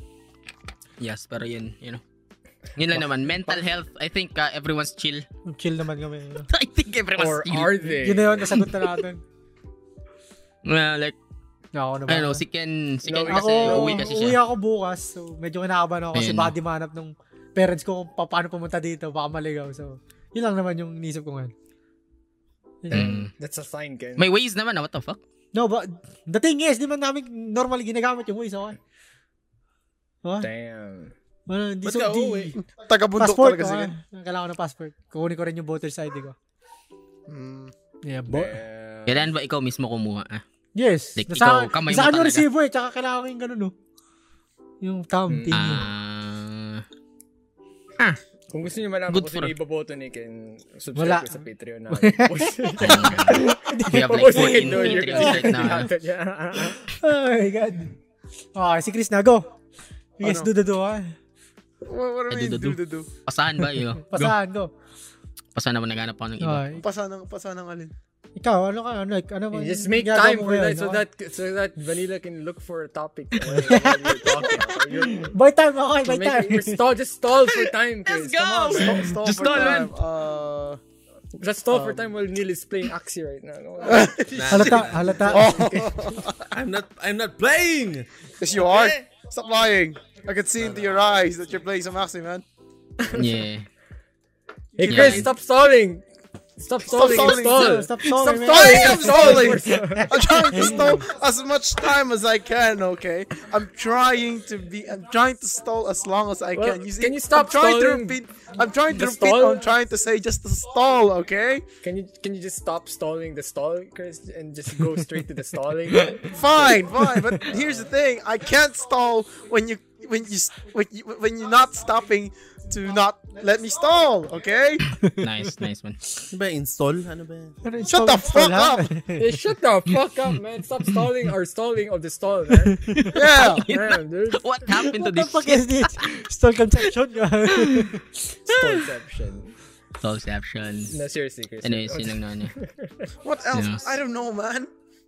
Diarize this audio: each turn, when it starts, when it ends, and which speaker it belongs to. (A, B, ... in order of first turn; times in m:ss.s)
0:01.0-0:02.0 A
0:02.8-0:05.2 A
0:05.4-0:06.5 B
0:06.5-0:08.0 A
0:07.2-0:08.6 C
0:08.0-0:09.2 B
0:10.6-0:11.2 A
0:11.7-0:12.4 B
0:12.1-0:14.4 A
0:13.0-0:14.3 C
0:13.3-0:21.5 B
0:16.1-0:16.5 A
0:22.8-0:23.2 B
0:22.9-0:23.3 A
0:22.9-0:24.3 C
0:24.2-0:25.2 A
0:25.5-0:28.8 B
0:30.4-0:31.1 C
0:31.5-0:32.6 B
0:31.8-0:32.6 D
0:32.6-0:33.9 E
0:33.2-0:36.3 B
0:37.3-0:37.7 E
0:38.0-0:38.6 B
0:38.3-0:39.3 C
0:39.1-0:40.4 A
0:40.8-0:43.7 B
0:41.2-0:42.4 A
0:44.8-0:45.9 B
0:45.3-0:45.8 C
0:45.5-0:46.8 A
0:48.5-0:56.9 C
0:49.1-0:49.5 A
0:51.0-0:51.3 B
0:52.0-0:55.9 B
0:52.8-0:55.9 A
0:56.7-0:57.9 B
0:58.5-0:59.4 B
1:00.2-1:01.1 B
1:00.2-1:00.5 E
1:01.9-1:03.1 E
1:02.3-1:04.3 A
1:04.1-1:04.7 B
1:05.5-1:06.8 A
1:06.4-1:06.8 B
1:06.8-1:07.9 E
1:08.4-1:11.0 B
1:09.5-1:15.3 C
1:13.4-1:16.8 B
1:16.0-1:19.1 C
1:17.5-1:19.9 A
1:18.7-1:20.8 E
1:21.3-1:25.9 C
1:21.7-1:22.1 E
1:23.9-1:24.2 E
1:24.2-1:25.3 D
1:24.5-1:25.7 B
1:25.3-1:26.4 E
1:26.5-1:28.0 D
1:28.4-1:32.4 E
1:28.6-1:29.0 D
1:33.0-1:33.4 C
1:33.1-1:33.6 A
1:34.8-1:36.0 C
1:34.8-1:35.3 E
1:34.8-1:35.3 A
1:36.6-1:40.9 C
1:36.8-1:37.9 E
1:37.1-1:41.0 B
1:38.4-1:51.6 E
1:46.5-1:48.2 C
1:48.9-1:49.6 C
1:51.8-1:56.8 C
1:56.3-2:04.8 E
1:57.5-1:57.8 C
2:05.0-2:05.2 B
2:05.1-2:06.0 A
2:06.3-2:07.6 D
2:07.6-2:09.4 B
2:07.8-2:08.9 E
2:09.2-2:12.8 C
2:12.9-2:16.2 A
2:13.1-2:13.6 E
2:13.7-2:14.4 C
2:14.7-2:18.3 B
2:17.5-2:17.9 A
2:18.5-2:19.6 C
2:20.0-2:20.9 A
2:20.9-2:23.2 C
2:21.6-2:22.5 A
2:23.2-2:24.7 E
2:23.5-2:23.9 A